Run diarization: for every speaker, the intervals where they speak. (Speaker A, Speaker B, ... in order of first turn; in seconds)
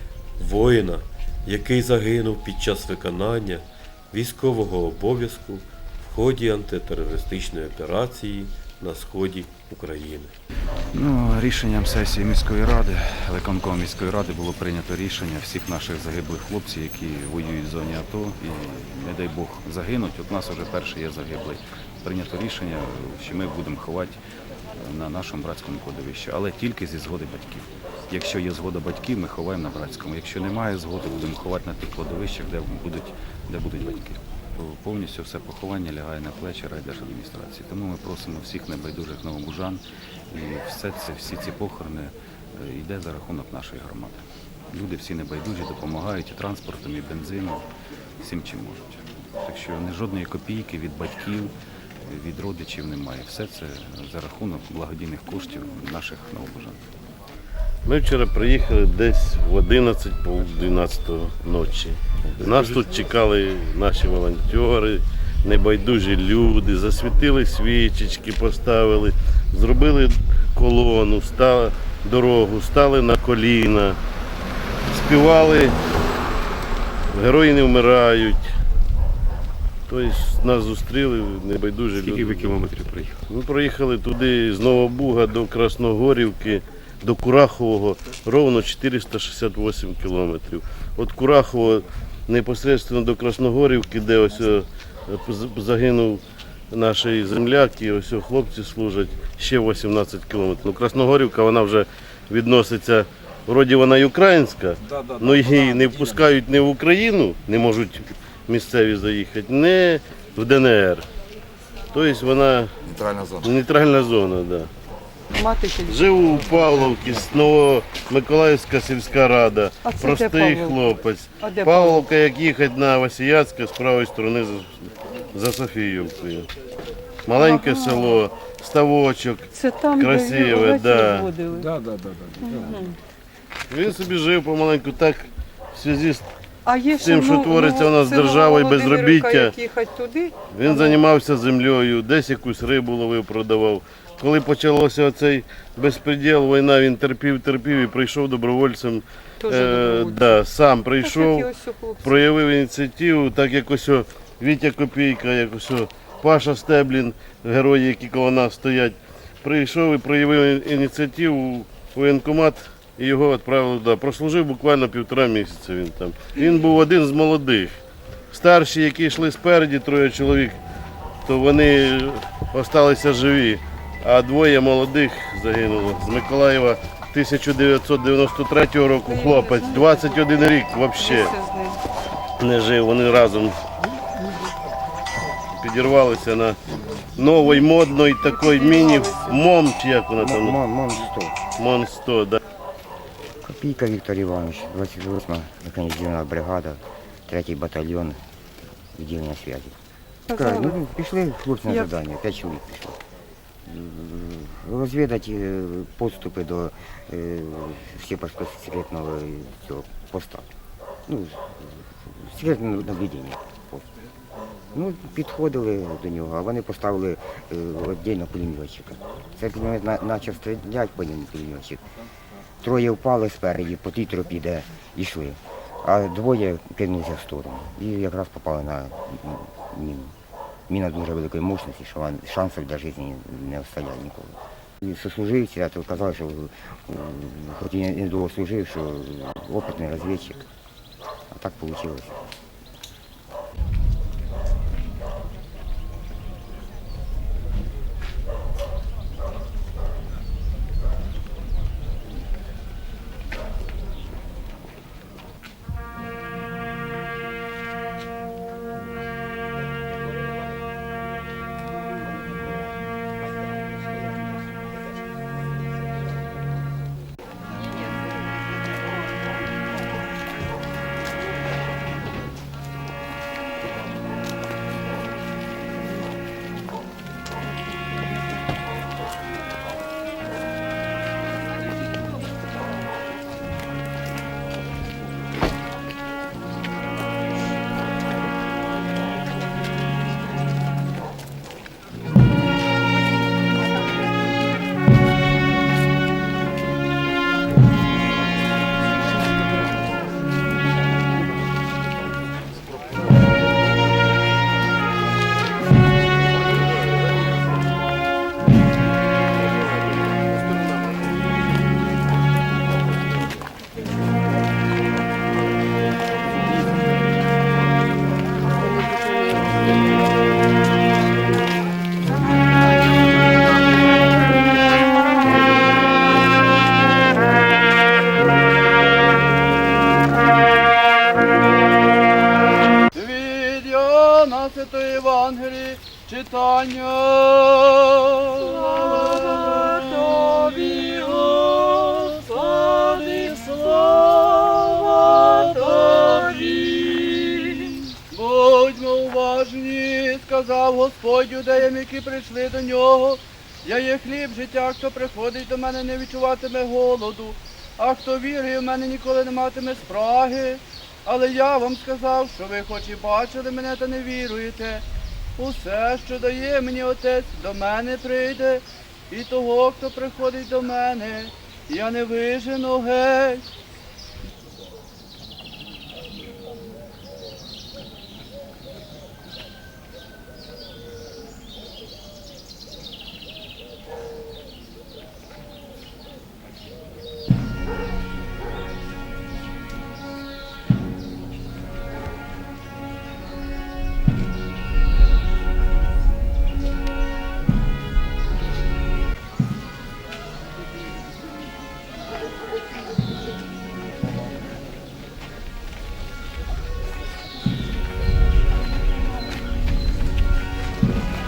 Speaker A: 0.4-10.4
Speaker B: 10.9-24.2, 24.7-47.6, 48.2-56.9, 82.0-83.2
Speaker C: 57.9-74.0, 74.9-75.8, 77.1-78.4, 79.9-82.6, 83.3-96.2, 96.7-111.0, 111.9-112.7, 113.4-114.7, 115.9-124.7, 125.3-126.5, 127.3-131.3, 133.7-136.2, 137.0-139.5, 140.5-151.5, 152.0-167.8, 168.3-170.6, 171.2-181.3, 182.4-183.6, 185.5-186.6, 187.2-190.6, 191.6-192.4
Speaker D: 104.8-106.3, 112.9-113.4, 131.5-132.8
Speaker E: 115.3-116.3, 119.8-120.8, 121.4-122.0, 127.3-128.2, 129.5-131.7, 132.4-132.9, 136.7-141.0, 149.4-150.4, 151.0-152.2, 179.1-180.4, 180.9-181.8, 187.4-189.4, 200.3-200.8, 201.6-201.9
Speaker F: 190.2-191.4, 193.4-198.2, 198.9-199.7, 200.3-203.0, 203.6-210.5, 211.1-213.8, 214.7-221.8, 222.6-230.1, 230.7-240.4, 241.3-242.2
Speaker G: 332.9-347.5, 348.1-364.8, 365.4-373.4